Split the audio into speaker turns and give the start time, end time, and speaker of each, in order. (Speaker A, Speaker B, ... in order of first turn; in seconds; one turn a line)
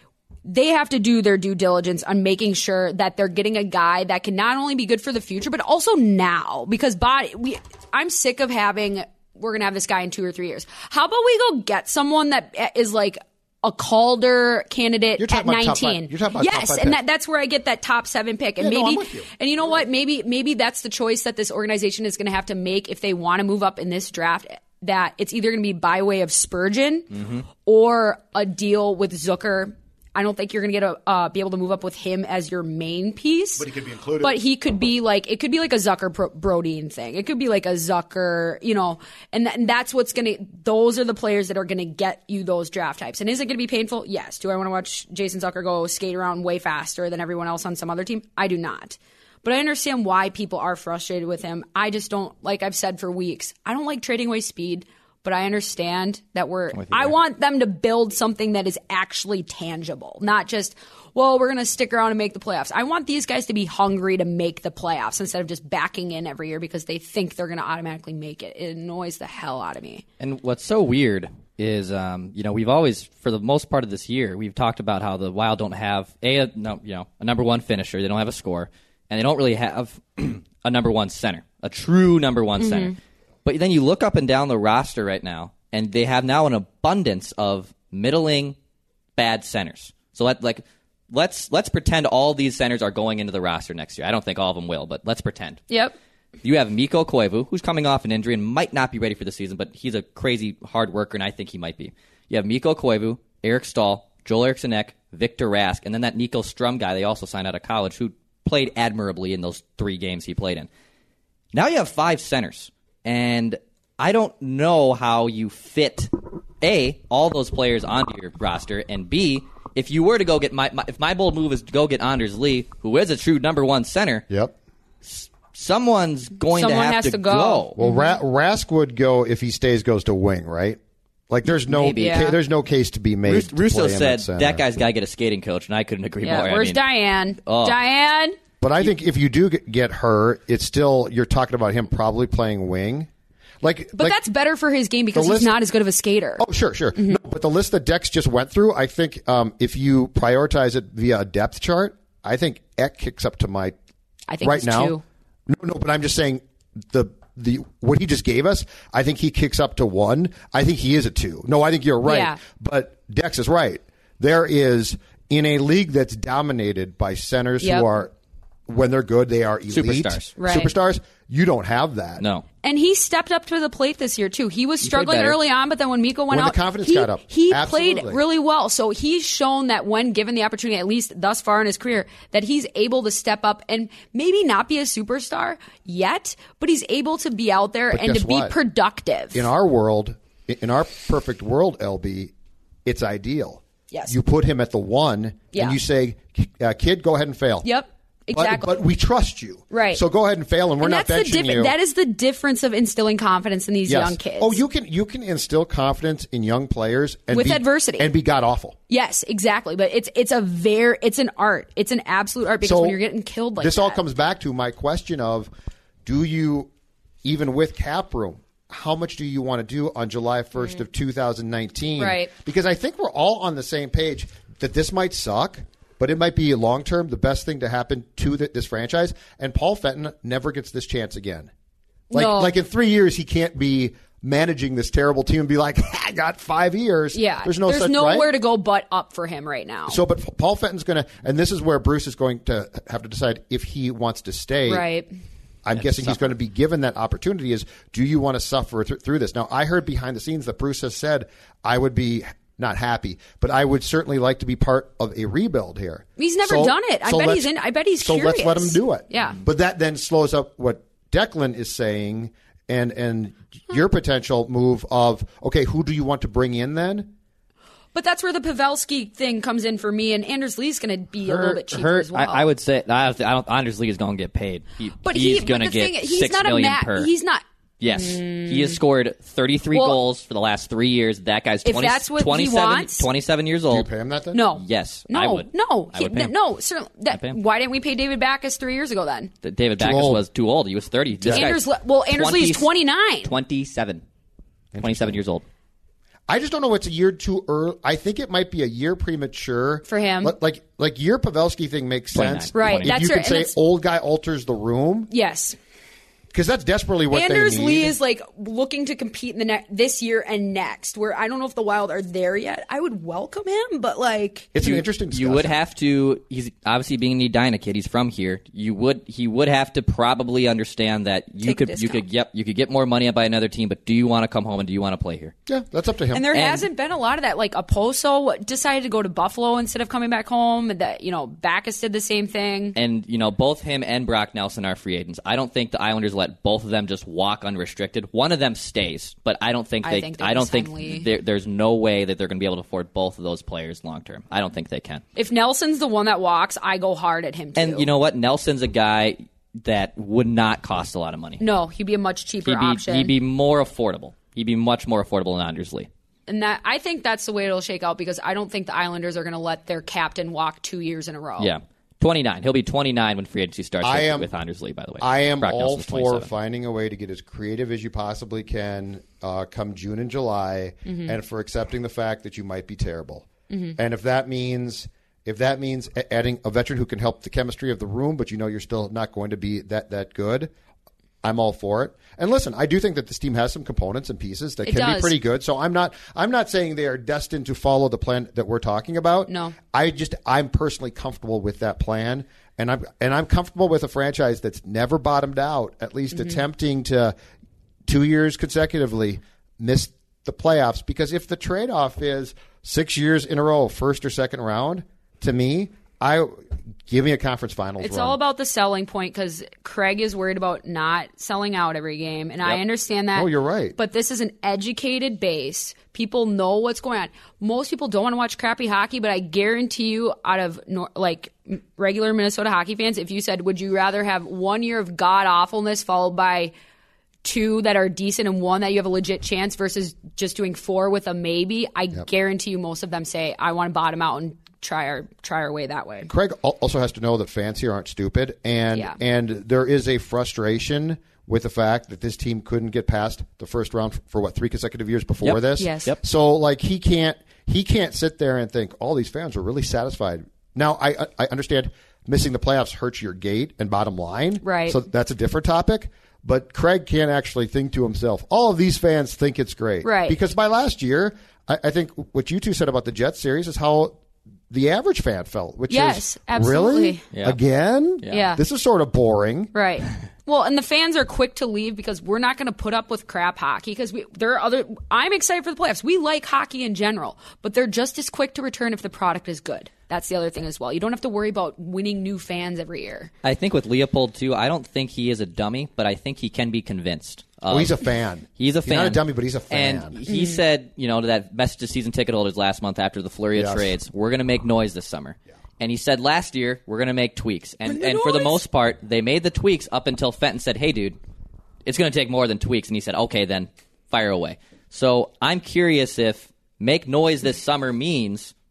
Speaker A: 0.5-27.1
Speaker B: 15.2-17.0
Speaker B: 18.6-19.3
Speaker C: 27.1-27.4
Speaker A: 27.6-33.7
Speaker B: 33.6-34.4
Speaker A: 34.2-70.0
Speaker C: 56.7-57.1
Speaker C: 70.2-88.6
Speaker A: 82.6-82.9
Speaker C: 89.2-95.6
Speaker A: 95.7-96.0
Speaker C: 96.4-110.7
Speaker C: 111.5-124.2
Speaker B: 124.3-124.5
Speaker C: 125.0-127.8
Speaker A: 126.5-128.1
Speaker B: 127.8-134.7
Speaker C: 131.7-132.3
Speaker A: 132.0-132.3
Speaker C: 133.3-136.8
Speaker A: 136.2-138.4
Speaker C: 137.4-137.8
Speaker B: 138.6-143.1
Speaker B: 143.6-144.2
Speaker A: 144.0-146.4
Speaker B: 145.1-145.6
Speaker B: 146.4-153.8
Speaker A: 154.3-155.0
Speaker B: 154.4-168.1
Speaker A: 162.1-162.4
Speaker A: 167.6-167.9
Speaker B: 168.7-172.2
Speaker C: 169.7-170.3
Speaker A: 170.4-170.7
Speaker C: 172.2-172.4
Speaker A: 172.6-189.5
Speaker C: 174.8-175.4
Speaker B: 176.3-178.2
Speaker B: 187.9-188.6
Speaker B: 189.3-192.3
Speaker B: 192.8-197.7
Speaker A: 193.9-194.2
Speaker A: 197.6-198.8
Speaker B: 198.3-201.8
Speaker A: 199.7-200.0
Speaker A: 200.8-204.6
Speaker B: 203.9-208.8
Speaker A: 207.3-208.1
Speaker A: 208.9-214.0
Speaker B: 212.6-213.0
Speaker B: 213.6-215.5
Speaker B: 216.1-216.7
Speaker B: 217.2-231.5
Speaker A: 222.0-222.3
Speaker A: 232.1-232.6
Speaker B: 232.1-238.3
Speaker A: 237.1-240.0
Speaker B: 239.9-244.9
Speaker A: 244.7-245.1
Speaker B: 245.7-267.1
Speaker C: 245.8-246.3
Speaker A: 256.2-259.4
Speaker A: 267.9-272.5
Speaker C: 271.2-277.1
Speaker A: 275.0-278.8
Speaker C: 277.8-283.9
Speaker A: 279.7-280.0
Speaker A: 281.6-283.1
Speaker B: 283.7-284.4
Speaker A: 284.3-289.3
Speaker C: 284.6-286.3
Speaker C: 287.1-287.4
Speaker C: 289.4-292.7
Speaker B: 289.8-290.2
Speaker B: 291.2-291.5
Speaker A: 291.3-293.3
Speaker C: 293.2-294.0
Speaker B: 294.7-295.2
Speaker C: 294.8-295.4
Speaker B: 296.3-305.1
Speaker A: 299.9-300.3
Speaker C: 302.1-302.9
Speaker A: 302.5-303.5
Speaker A: 305.1-305.6
Speaker B: 306.3-307.9
Speaker A: 307.1-314.5
Speaker B: 314.5-315.6
Speaker C: 314.6-325.3
Speaker A: 321.4-322.1
Speaker B: 325.5-326.3
Speaker A: 326.1-332.8
Speaker C: 326.3-326.6
Speaker C: 332.8-345.0
Speaker A: 339.8-341.1
Speaker A: 345.2-347.9
Speaker C: 347.6-351.4
Speaker A: 351.4-353.1
Speaker C: 352.5-355.9
Speaker A: 356.3-361.5
Speaker C: 361.4-366.3
Speaker B: 363.8-364.3
Speaker B: 365.0-380.5
Speaker A: 370.9-371.1
Speaker A: 373.5-373.8
Speaker B: 381.2-397.1
Speaker A: 384.6-385.2
Speaker A: 389.3-389.6
Speaker A: 396.1-396.4
Speaker B: 397.9-408.2
Speaker A: 407.8-426.5
Speaker B: 413.1-413.8
Speaker A: 427.2-436.1
Speaker B: 436.1-464.0
Speaker C: 445.2-446.0
Speaker A: 445.6-445.9
Speaker A: 454.4-454.8
Speaker A: 459.8-460.2
Speaker B: 464.5-469.5
Speaker A: 465.7-467.0
Speaker C: 467.1-467.4
Speaker A: 468.1-468.4
Speaker A: 469.5-483.1
Speaker C: 483.2-487.8
Speaker B: 487.5-490.0
Speaker C: 488.4-501.0
Speaker A: 490.1-490.4
Speaker B: 493.4-493.7
Speaker A: 497.7-498.4
Speaker C: 501.7-508.3